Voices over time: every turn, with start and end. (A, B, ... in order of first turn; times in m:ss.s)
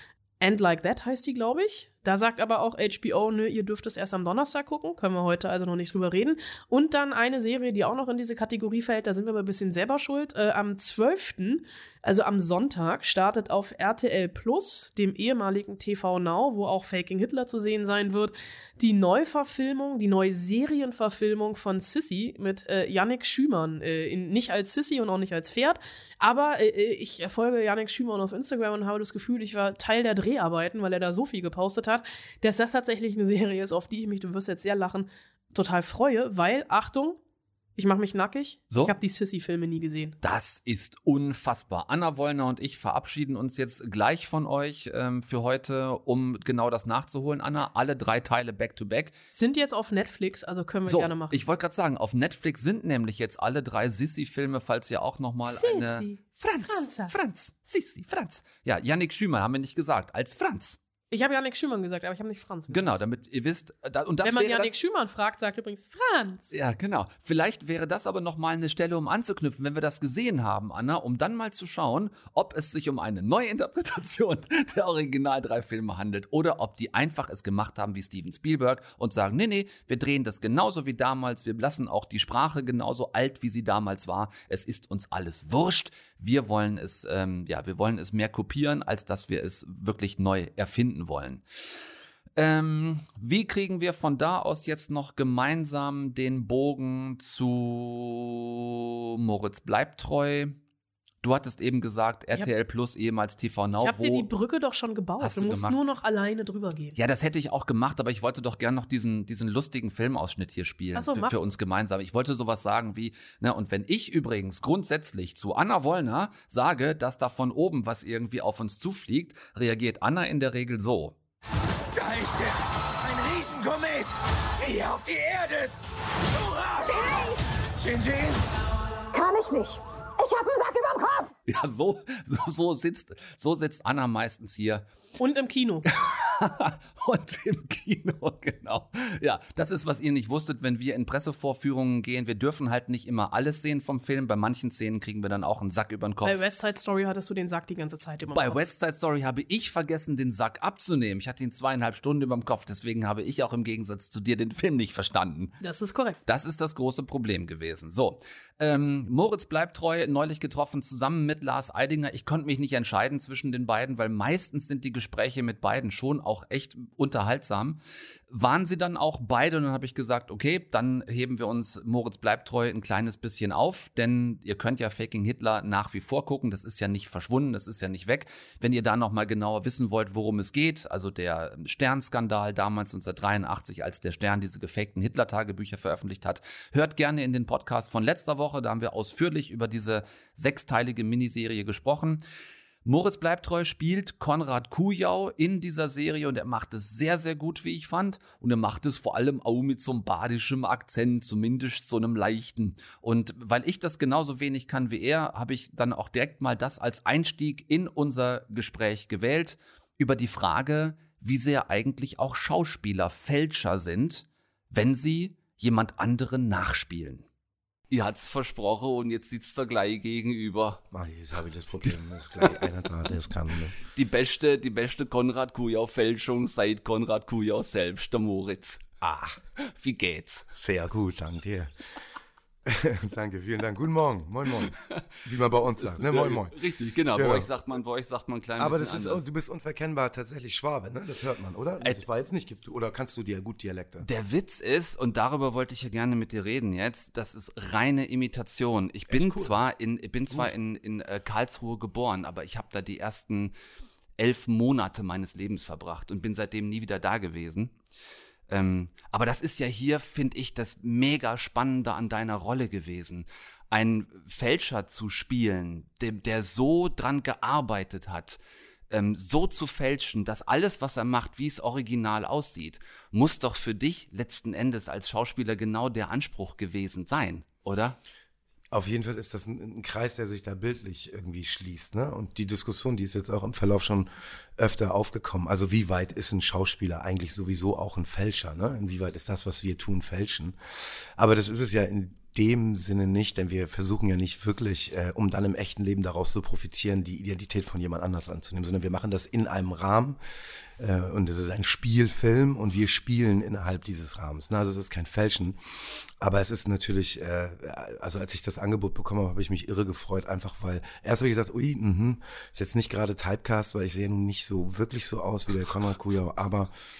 0:00.4-0:37.2 A
0:37.8-0:40.2 A
0:38.7-0:38.9 B
0:40.2-0:49.2 B
0:49.3-0:51.4 A
0:50.9-1:00.8 B
0:55.4-0:57.1 A
1:01.1-1:02.9 A
1:02.7-1:04.7 B
1:04.2-1:06.5 A
1:06.5-1:31.4 B
1:32.4-1:40.6 B
1:41.2-1:44.3 B
1:43.8-1:47.0 A
1:45.2-1:45.8 B
1:47.0-2:01.1 B
1:50.9-1:51.3 A
2:01.9-2:05.7 C
2:06.3-2:07.2 C
2:06.9-2:07.3 D
2:07.8-2:08.4 C
2:09.1-2:11.3 D
2:11.5-2:14.8 B
2:15.2-2:15.9 A
2:15.9-2:26.4 B
2:26.2-2:28.6 A
2:28.3-2:35.6 B
2:35.6-2:36.2 A
2:36.2-3:12.2 B
3:12.8-3:37.2 B
3:37.9-3:40.8 B
3:40.9-3:43.8 E
3:43.9-3:50.5 B
3:50.5-3:51.7 E
3:52.6-3:54.7 E
3:54.6-3:55.0 B
3:55.2-3:56.6 E
3:55.6-3:59.2 B
3:57.1-3:57.5 E
3:58.6-4:04.1 E
4:01.8-4:02.0 B
4:04.0-4:13.5 B
4:09.1-4:09.5 E
4:14.2-4:17.7 B
4:18.5-4:28.4 B
4:28.9-4:38.0 B
4:38.7-4:50.6 E
4:51.2-5:00.2 E
5:00.8-5:05.6 E
5:06.2-5:16.7 E